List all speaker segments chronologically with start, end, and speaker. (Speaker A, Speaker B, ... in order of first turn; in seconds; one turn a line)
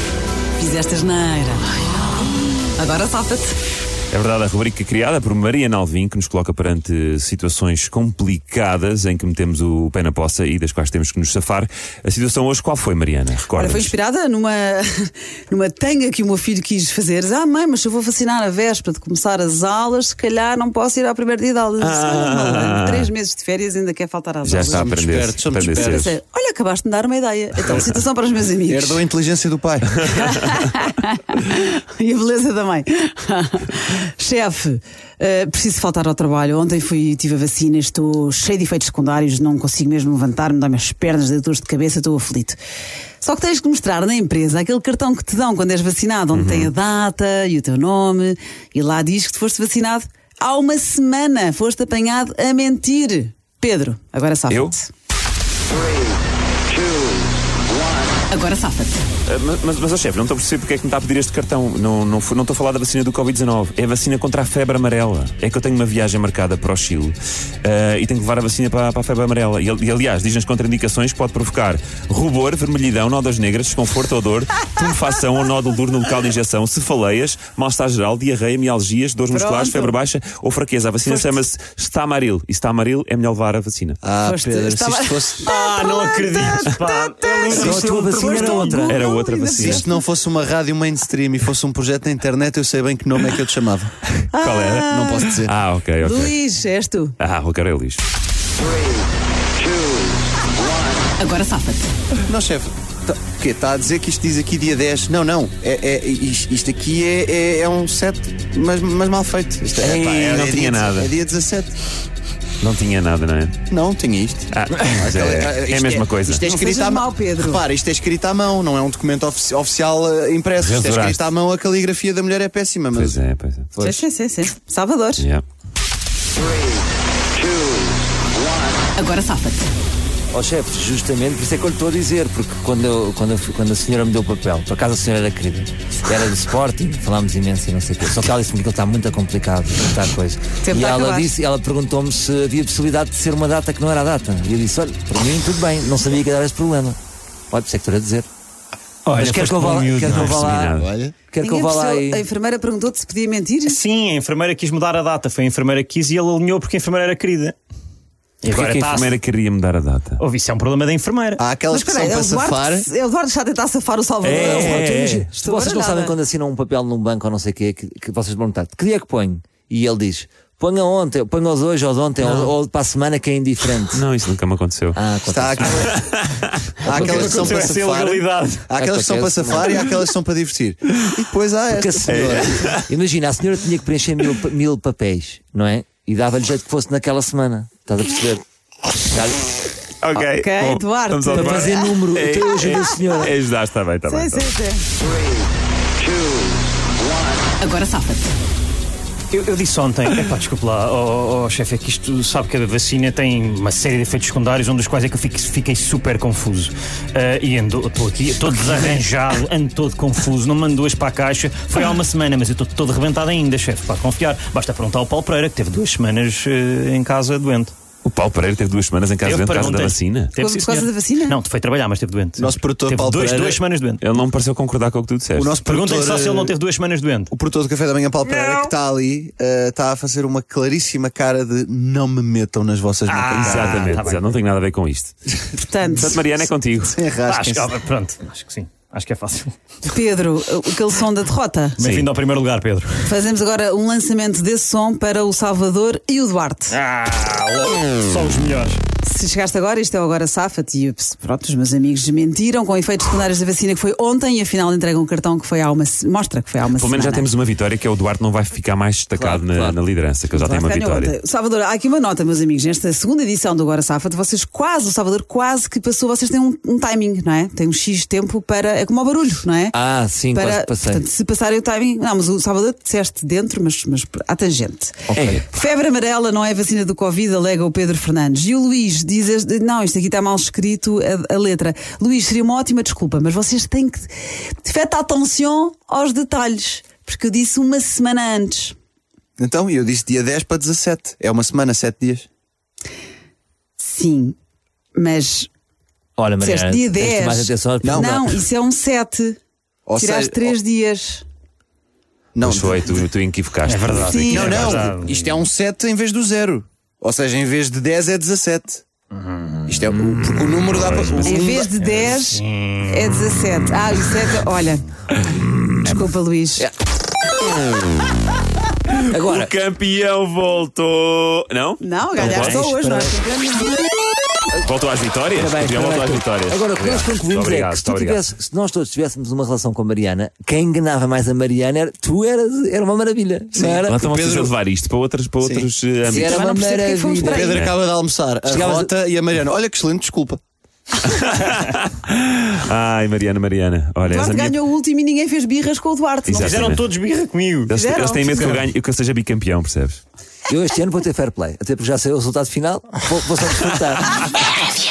Speaker A: 0.6-3.5
Speaker B: 4.1-13.9
Speaker A: 13.5-24.9
Speaker B: 21.8-23.1
Speaker B: 24.4-26.1
Speaker C: 24.7-26.1
Speaker A: 25.7-29.1
Speaker C: 28.7-30.2
Speaker A: 30.1-42.6
Speaker A: 43.2-54.9
Speaker B: 46.3-46.7
Speaker A: 58.3-59.0
Speaker B: 59.3-84.0
Speaker A: 79.3-80.0
Speaker A: 81.0-81.4
Speaker C: 84.0-85.5
Speaker A: 84.2-90.0
Speaker D: 85.4-88.9
Speaker E: 87.5-89.0
Speaker C: 87.6-87.8
Speaker B: 88.9-89.9
Speaker C: 89.6-94.0
Speaker B: 94.2-96.3
Speaker A: 94.3-95.3
Speaker C: 94.9-95.5
Speaker A: 96.0-97.2
Speaker B: 97.2-98.0
Speaker A: 101.2-101.9
Speaker C: 102.3-111.7
Speaker B: 109.8-111.1
Speaker B: 112.6-113.6
Speaker C: 113.7-123.2
Speaker B: 114.5-116.5
Speaker A: 116.5-117.6
Speaker B: 120.6-121.3
Speaker B: 122.9-123.7
Speaker E: 123.8-124.0
Speaker A: 123.8-125.3
Speaker A: 128.9-129.7
Speaker E: 130.3-147.0
Speaker A: 140.6-141.3
Speaker E: 147.5-148.3
Speaker D: 149.1-150.5
Speaker E: 149.1-152.2
Speaker B: 150.0-150.9
Speaker C: 150.8-151.1
Speaker A: 151.4-153.8
Speaker D: 153.7-157.6
Speaker D: 158.4-159.2
Speaker B: 158.5-160.2
Speaker D: 160.2-161.4
Speaker C: 161.4-162.9
Speaker A: 161.7-166.2
Speaker B: 164.2-165.3
Speaker E: 164.2-174.0
Speaker B: 172.2-172.5
Speaker B: 173.9-175.0
Speaker E: 174.9-175.9
Speaker C: 175.3-176.0
Speaker B: 175.7-176.7
Speaker D: 176.8-178.7
Speaker E: 176.8-177.7
Speaker C: 176.8-182.6
Speaker E: 178.8-179.8
Speaker E: 181.7-188.4
Speaker B: 182.1-182.9
Speaker E: 189.0-189.4
Speaker B: 190.0-194.5
Speaker A: 190.2-192.0
Speaker E: 191.3-193.3
Speaker A: 194.1-194.9
Speaker A: 197.6-198.3
Speaker D: 199.3-217.7
Speaker B: 218.0-220.3
Speaker D: 219.2-224.0
Speaker A: 220.4-221.4
Speaker C: 222.4-223.6
Speaker B: 224.0-225.6
Speaker C: 225.3-226.6
Speaker D: 225.6-227.3
Speaker C: 227.3-234.1
Speaker D: 228.3-228.7
Speaker D: 233.1-234.2
Speaker B: 233.3-235.1
Speaker A: 235.6-236.2
Speaker B: 236.0-237.0
Speaker C: 236.9-237.7
Speaker D: 237.2-239.6
Speaker A: 239.8-241.8
Speaker D: 241.8-243.1
Speaker B: 241.8-242.1
Speaker A: 243.1-246.8
Speaker D: 246.7-248.8
Speaker A: 249.0-257.3
Speaker B: 256.7-261.1
Speaker E: 259.2-259.8
Speaker A: 260.3-269.8
Speaker E: 269.7-271.0
Speaker A: 270.3-288.8
Speaker E: 275.1-275.4
Speaker B: 275.2-275.4
Speaker C: 289.4-292.3
Speaker A: 293.8-294.4
Speaker A: 294.9-295.5
Speaker E: 296.2-298.2
Speaker A: 296.4-299.4
Speaker C: 297.8-298.4
Speaker C: 299.9-300.6
Speaker A: 300.0-301.2
Speaker C: 302.3-302.9
Speaker B: 302.4-304.9
Speaker D: 303.6-305.4
Speaker C: 304.3-308.8
Speaker D: 309.1-309.7
Speaker C: 309.7-311.7
Speaker B: 310.7-311.4
Speaker A: 311.2-314.9
Speaker D: 311.8-313.1
Speaker A: 315.8-316.7
Speaker B: 318.9-321.8
Speaker E: 319.1-319.5
Speaker A: 321.8-323.8
Speaker E: 322.2-323.2
Speaker B: 324.6-328.2
Speaker E: 325.3-334.0
Speaker C: 333.6-334.5
Speaker B: 333.8-336.4
Speaker C: 335.4-335.7
Speaker E: 336.1-337.6
Speaker A: 336.1-337.6
Speaker C: 337.2-340.4
Speaker B: 337.5-337.8
Speaker E: 338.5-338.9
Speaker B: 341.1-344.6
Speaker A: 344.0-346.8
Speaker B: 346.3-346.8
Speaker D: 346.4-347.7
Speaker B: 347.7-350.0
Speaker A: 347.7-348.6
Speaker D: 348.4-348.6
Speaker E: 350.5-354.4